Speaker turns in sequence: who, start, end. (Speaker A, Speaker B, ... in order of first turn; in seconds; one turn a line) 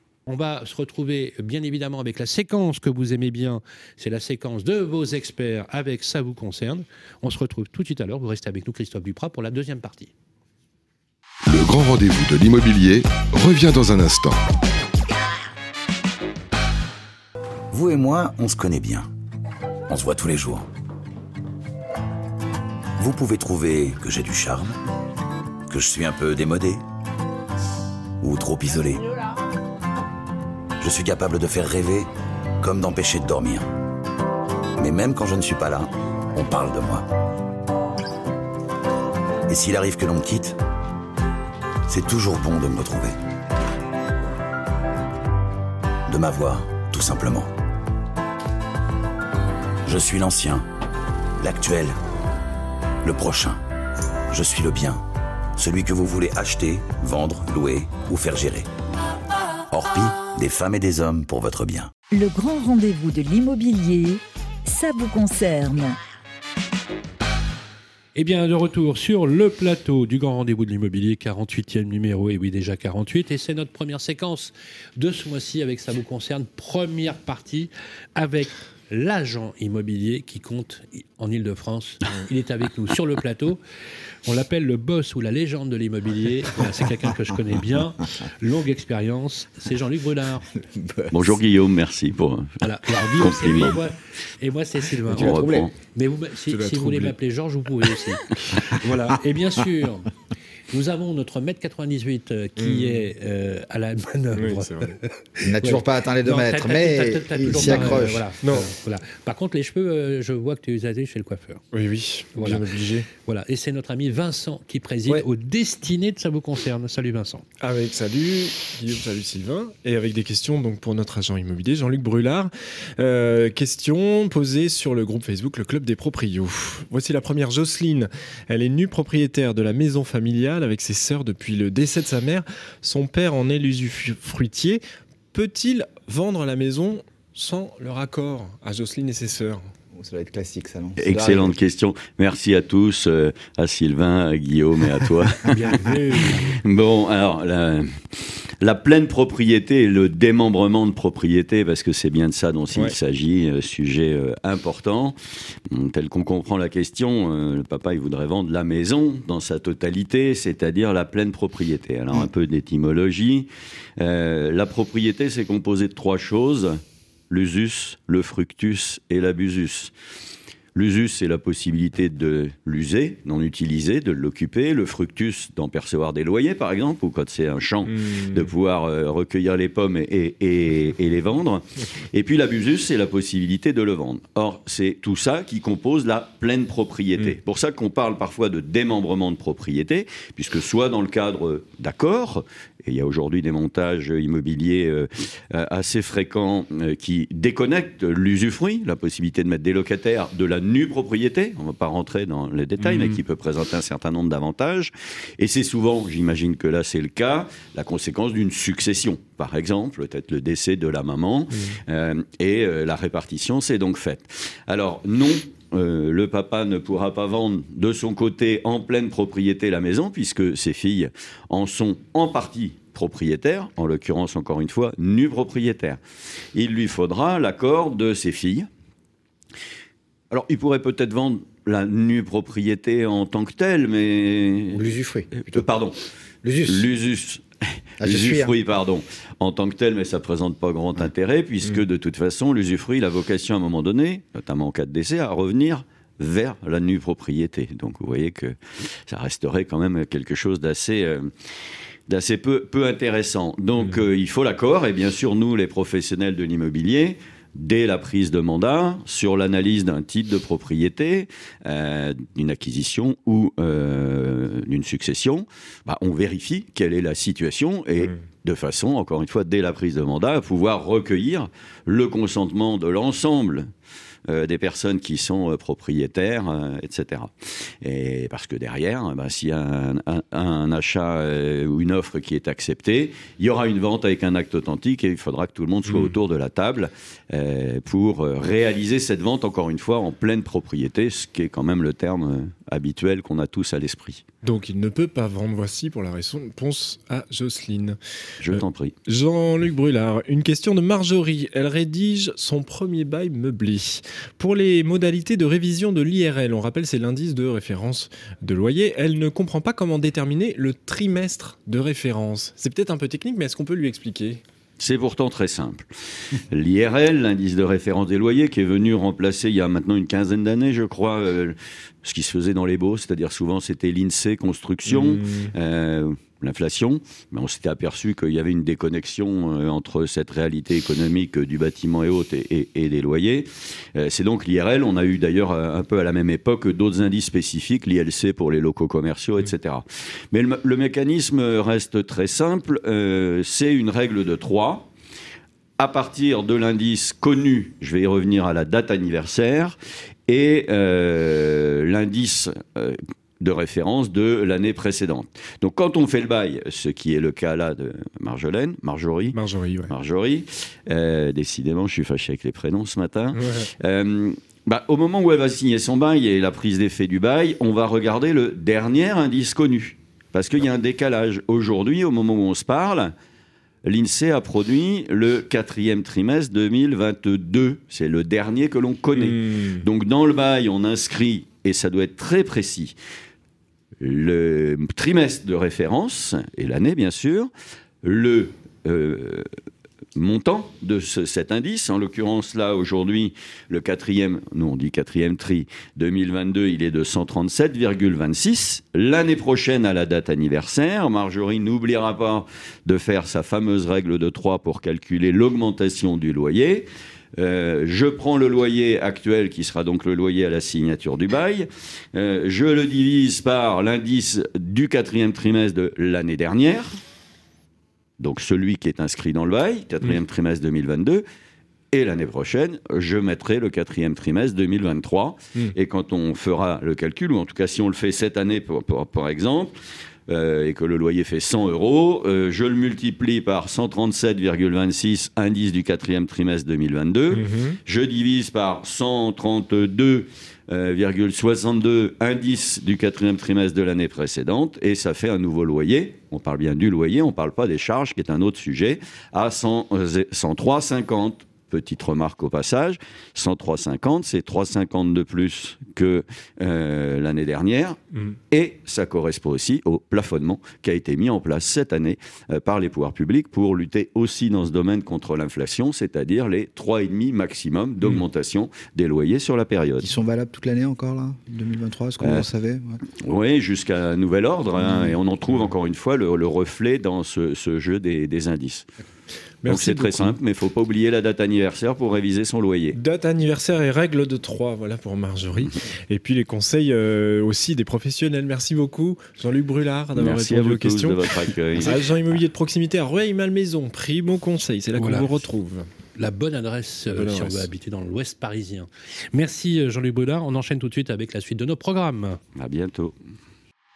Speaker A: 0.3-10.1
Speaker B: 11.5-14.4
Speaker C: 17.7-19.1
Speaker C: 19.9-20.7
Speaker C: 23.0-24.8
Speaker C: 25.7-26.8
Speaker C: 28.2-29.2
Speaker C: 30.8-32.1
Speaker C: 32.6-33.7
Speaker C: 34.8-37.1
Speaker C: 39.5-40.6
Speaker C: 41.9-43.2
Speaker C: 46.1-47.5
Speaker C: 49.9-50.7
Speaker C: 51.4-52.0
Speaker C: 53.0-53.6
Speaker C: 54.3-55.0
Speaker C: 55.6-58.7
Speaker C: 59.7-61.9
Speaker D: 62.1-66.0
Speaker A: 68.2-83.6
Speaker A: 84.2-90.5
Speaker E: 90.5-91.4
Speaker F: 91.1-92.6
Speaker A: 92.6-100.1
Speaker F: 93.2-93.8
Speaker E: 95.1-95.7
Speaker F: 95.1-95.7
Speaker G: 96.5-97.2
Speaker A: 100.7-111.6
Speaker G: 102.6-103.0
Speaker G: 104.3-104.9
Speaker E: 105.4-108.2
Speaker G: 107.6-108.7
Speaker G: 111.7-113.1
Speaker A: 112.4-117.5
Speaker G: 117.6-139.7
Speaker E: 139.9-141.6
Speaker F: 141.0-145.5
Speaker A: 145.5-146.6
Speaker F: 146.2-155.2
Speaker F: 155.7-163.5
Speaker F: 164.0-169.9
Speaker F: 170.8-226.0
Speaker G: 177.9-178.5
Speaker G: 202.8-203.2
Speaker F: 226.5-228.7
Speaker F: 230.3-236.0
Speaker E: 234.7-235.7
Speaker E: 236.4-236.9
Speaker F: 236.7-237.4
Speaker E: 238.0-238.5
Speaker F: 238.0-248.6
Speaker F: 249.1-251.3
Speaker F: 252.1-273.7
Speaker F: 274.3-294.2
Speaker G: 285.9-286.1
Speaker G: 294.4-298.0
Speaker F: 298.4-298.9
Speaker G: 298.5-314.4
Speaker F: 314.8-344.9
Speaker G: 324.9-325.5
Speaker F: 345.8-349.8
Speaker F: 350.3-359.4
Speaker G: 359.3-359.9
Speaker F: 359.9-373.1
Speaker G: 363.3-363.7
Speaker F: 373.9-382.9
Speaker G: 379.1-379.9
Speaker F: 384.0-387.5
Speaker F: 388.0-389.5
Speaker F: 390.2-417.0
Speaker F: 418.2-421.2
Speaker F: 421.9-429.7
Speaker F: 430.3-458.0
Speaker G: 437.3-437.8
Speaker F: 458.5-470.1
Speaker E: 470.0-473.0
Speaker F: 472.2-472.5
Speaker F: 473.2-478.9
Speaker G: 479.6-480.4
Speaker F: 479.7-483.0
Speaker G: 482.9-495.9
Speaker F: 490.2-492.1
Speaker A: 495.0-495.4
Speaker A: 496.2-502.4
Speaker G: 497.1-497.7
Speaker F: 502.6-503.2